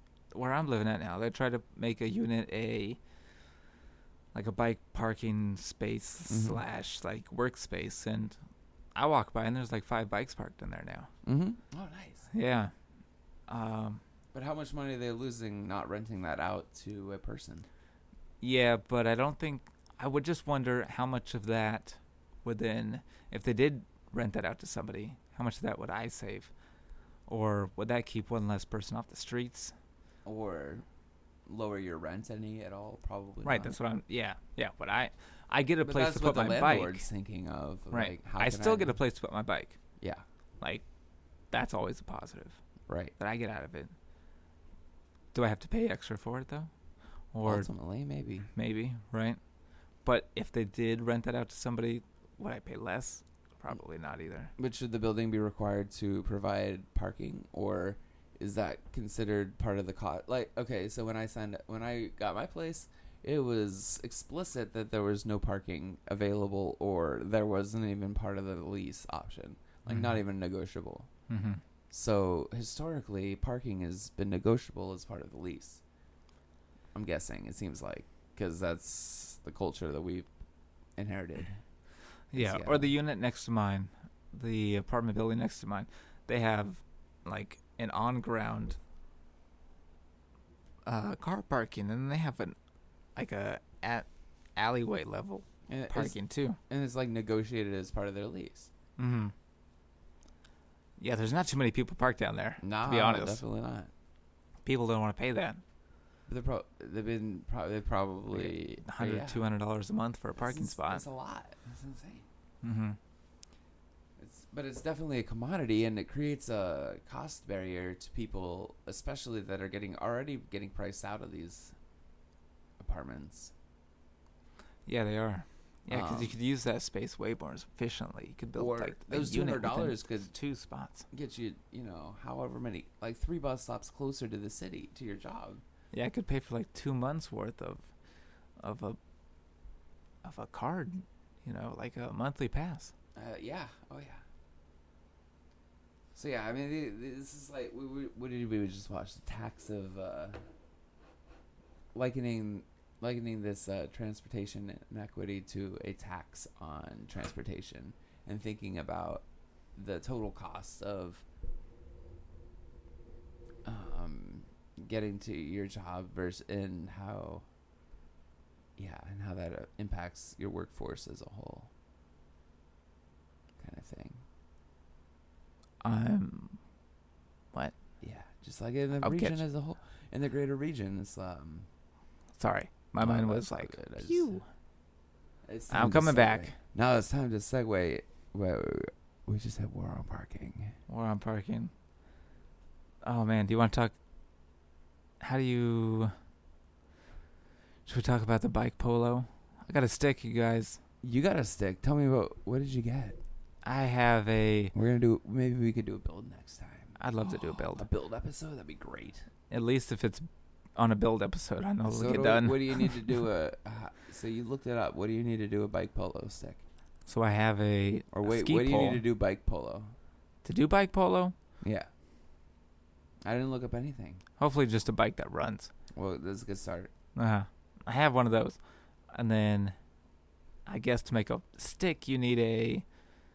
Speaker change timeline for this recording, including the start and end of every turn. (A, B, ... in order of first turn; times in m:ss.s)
0:00.3-0:03.0 A
0:04.3-0:08.4 A
0:06.3-0:06.6 B
0:08.9-0:11.1 A
0:11.2-0:12.3 B
0:12.3-0:12.7 A
0:13.5-0:14.0 A
0:14.3-0:17.7 B
0:18.4-0:26.5 A
0:27.3-0:29.7 A
0:30.2-0:30.8 B
0:31.4-0:33.8 B
0:33.4-0:37.0 A
0:35.8-0:39.0 B
0:37.9-0:39.8 A
0:40.6-0:40.8 A
0:41.5-0:42.6 A
0:42.9-0:43.1 B
0:43.2-0:43.9 A
0:45.3-0:46.7 A
0:47.3-0:47.7 A
0:47.4-0:48.5 B
0:48.5-0:49.4 A
0:50.0-0:54.5 A
0:54.6-1:11.1 B
1:09.9-1:10.2 A
1:11.3-1:11.6 A
1:11.9-1:15.8 B
1:16.9-1:20.3 B
1:21.0-1:21.6 B
1:22.3-1:28.8 A
1:22.3-1:22.9 B
1:30.8-1:32.6 A
1:33.2-1:36.6 A
1:35.7-1:36.2 B
1:36.7-1:38.7 B
1:39.0-1:39.3 A
1:41.0-1:43.4 A
1:42.6-1:43.9 B
1:44.6-1:45.6 A
1:46.3-1:49.4 B
1:48.3-1:51.0 A
1:50.3-1:52.3 B
1:52.6-1:53.0 A
1:54.2-2:01.7 B
2:02.8-2:03.5 B
2:04.8-2:11.0 A
2:05.9-2:06.3 B
2:08.5-2:10.3 B
2:11.1-2:15.6 B
2:15.9-2:17.8 A
2:18.6-2:19.0 A
2:20.2-2:22.9 A
2:23.1-2:24.2 B
2:26.1-2:30.4 B
2:31.9-2:41.2 B
2:43.6-2:47.4 B
2:48.8-2:51.7 B
2:53.6-2:54.2 B
2:55.8-2:56.6 A
2:58.0-3:01.7 B
2:59.0-2:59.4 A
3:02.4-3:04.4 A
3:03.0-3:04.3 B
3:05.4-3:10.7 B
3:05.7-3:06.5 A
3:10.9-3:11.7 A
3:13.0-3:13.9 A
3:15.2-3:16.1 A
3:17.8-3:20.8 A
3:21.0-3:23.2 B
3:23.6-3:24.7 A
3:24.7-3:29.2 B
3:27.0-3:27.9 A
3:29.5-3:33.1 A
3:31.9-3:36.6 B
3:37.0-3:39.0 A
3:38.1-3:39.9 B
3:40.4-3:41.3 A
3:41.6-3:41.9 B
3:43.2-3:44.2 B
3:44.4-3:45.7 A
3:45.9-3:46.9 B
3:47.2-3:48.6 A
3:49.1-3:49.8 A
3:50.6-3:52.8 A